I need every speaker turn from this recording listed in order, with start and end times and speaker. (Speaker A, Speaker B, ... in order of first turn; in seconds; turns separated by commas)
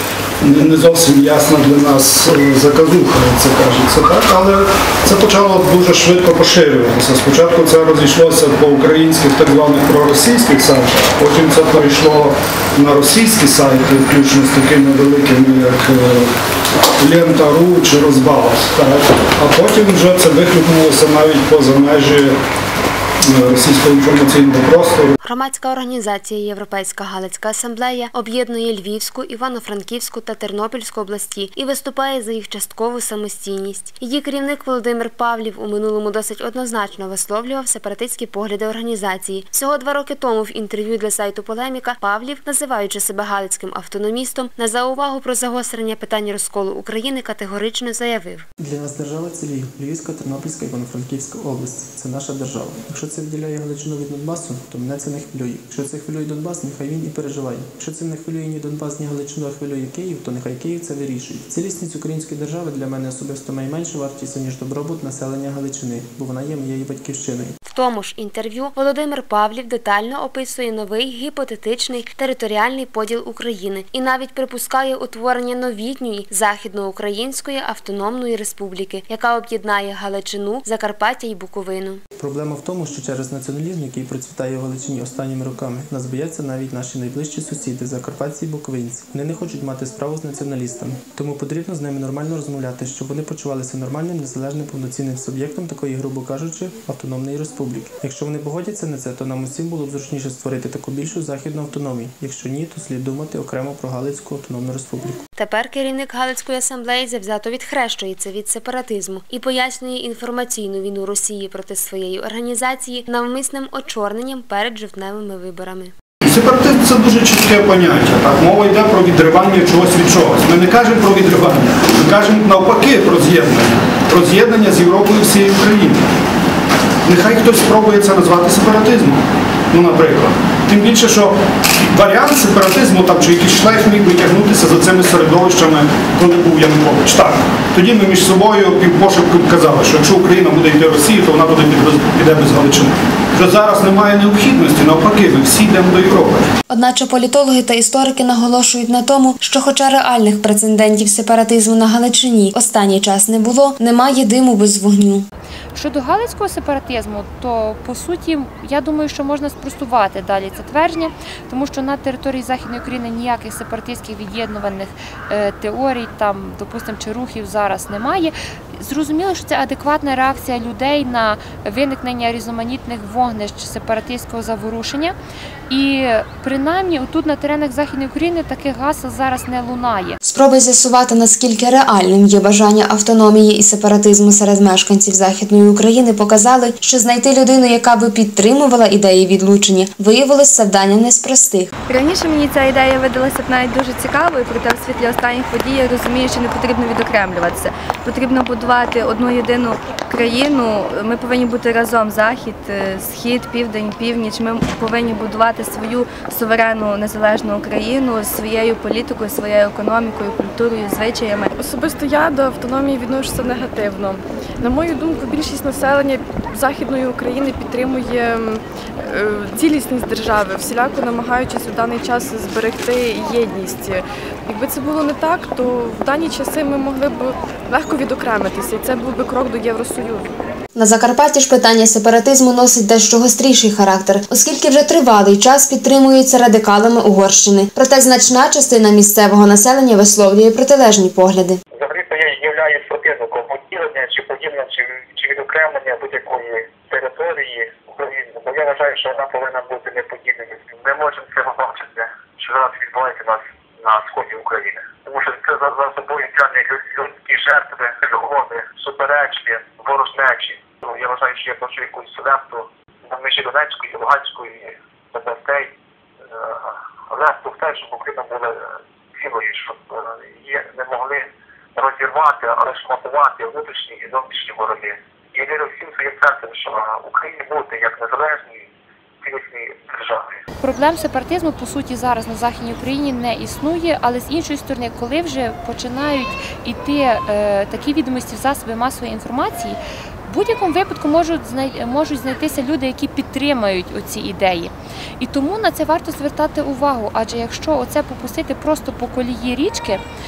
Speaker A: 0.4-16.3, Speaker A: 17.0-22.4, Speaker A: 23.3-25.1, Speaker B: 25.2-48.5, Speaker C: 48.6-67.6, Speaker B: 67.7-82.0, Speaker C: 82.2-105.2, Speaker B: 105.3-115.9, Speaker A: 116.2-126.0, Speaker A: 127.0-146.5, Speaker B: 146.7-155.3, Speaker D: 155.7-175.2, Speaker D: 175.7-180.2, Speaker B: 180.2-191.7, Speaker E: 191.9-211.5, Speaker F: 211.5-230.3, Speaker B: 230.7-241.6, Speaker G: 241.7-265.7, Speaker G: 266.3-278.7, Speaker G: 279.2-280.3, Speaker D: 280.6-300.0